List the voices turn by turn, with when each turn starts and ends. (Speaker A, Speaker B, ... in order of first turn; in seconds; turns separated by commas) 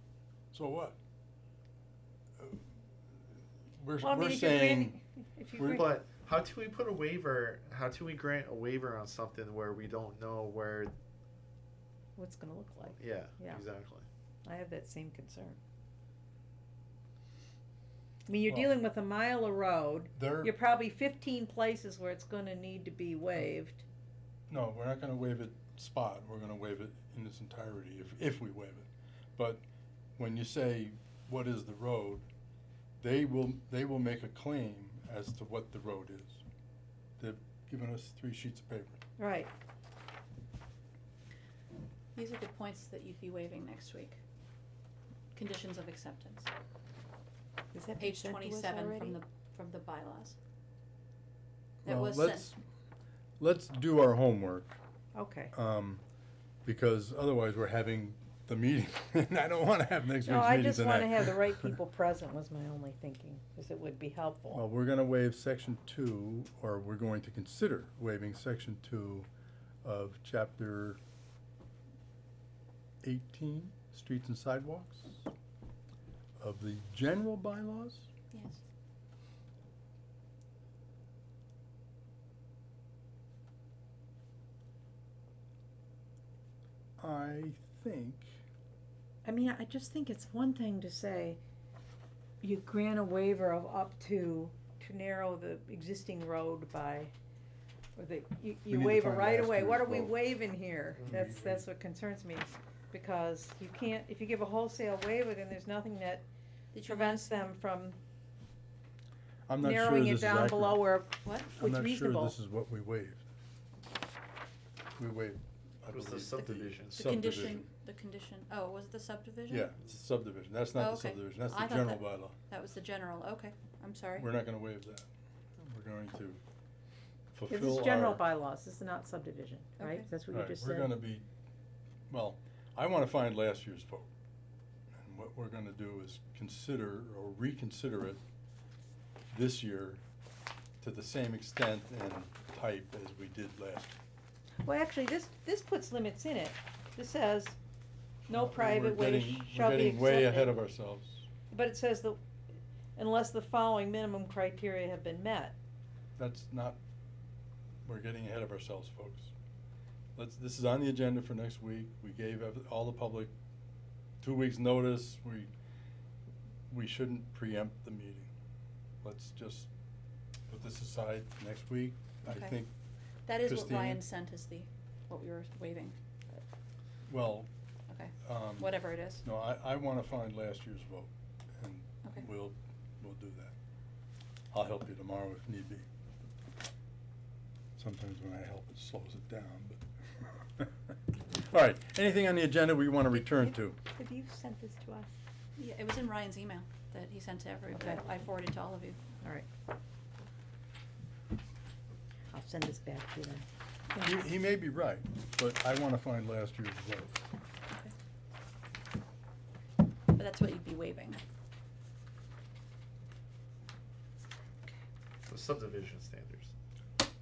Speaker A: 0.5-1.0, Speaker A: 3.7-5.0, Speaker B: 4.0-5.9, Speaker A: 5.6-5.8, Speaker C: 5.6-10.9, Speaker B: 12.2-13.6, Speaker C: 12.9-14.1, Speaker B: 14.4-15.6, Speaker B: 18.3-23.8, Speaker A: 18.5-18.7, Speaker A: 20.1-20.5, Speaker A: 24.5-29.6, Speaker A: 30.2-32.2, Speaker A: 33.0-36.4, Speaker A: 37.2-39.0, Speaker B: 39.2-39.5, Speaker D: 42.1-44.2, Speaker D: 45.3-46.5, Speaker B: 47.7-49.2, Speaker D: 48.0-50.4, Speaker D: 51.8-52.5, Speaker A: 51.9-52.6, Speaker A: 53.4-54.8, Speaker B: 55.1-55.5, Speaker A: 55.5-56.0, Speaker A: 56.6-61.8, Speaker B: 60.2-64.6, Speaker A: 64.5-69.3, Speaker A: 69.8-71.0, Speaker A: 73.0-75.3, Speaker A: 76.4-78.1, Speaker D: 78.3-78.6, Speaker A: 87.0-88.4, Speaker B: 89.2-91.4, Speaker B: 92.4-97.1, Speaker B: 98.0-106.2, Speaker A: 98.7-100.2, Speaker C: 101.0-101.3, Speaker A: 101.1-101.6, Speaker D: 106.7-107.5, Speaker B: 106.8-108.0, Speaker A: 109.5-110.8, Speaker B: 109.6-112.3, Speaker D: 111.2-111.5, Speaker A: 111.6-113.2, Speaker A: 115.0-117.7, Speaker C: 115.9-117.3, Speaker D: 116.9-119.7, Speaker A: 119.5-122.3, Speaker D: 120.7-124.3, Speaker A: 124.2-126.4, Speaker A: 127.3-128.2, Speaker B: 127.5-130.9, Speaker D: 129.8-130.1, Speaker A: 130.3-131.3, Speaker A: 132.1-134.1, Speaker A: 134.9-138.2, Speaker A: 139.3-140.0, Speaker A: 140.8-144.0, Speaker B: 144.6-147.6, Speaker B: 148.3-150.6, Speaker A: 148.3-151.3, Speaker B: 151.5-152.2, Speaker B: 152.9-155.6, Speaker A: 156.2-156.8, Speaker A: 157.8-159.3, Speaker A: 160.2-163.3, Speaker A: 164.2-165.5, Speaker A: 166.7-168.3, Speaker A: 169.0-169.7, Speaker A: 170.5-172.7, Speaker D: 172.2-172.6, Speaker D: 173.2-175.9, Speaker A: 173.4-174.0, Speaker A: 177.1-177.5, Speaker D: 177.9-179.2, Speaker A: 178.2-183.5, Speaker A: 184.5-185.8, Speaker A: 187.8-190.9, Speaker A: 191.5-193.8, Speaker B: 193.1-195.1, Speaker D: 195.6-199.0, Speaker B: 199.2-199.5, Speaker B: 202.3-204.0, Speaker A: 203.9-207.2, Speaker D: 210.2-211.2, Speaker C: 215.3-216.5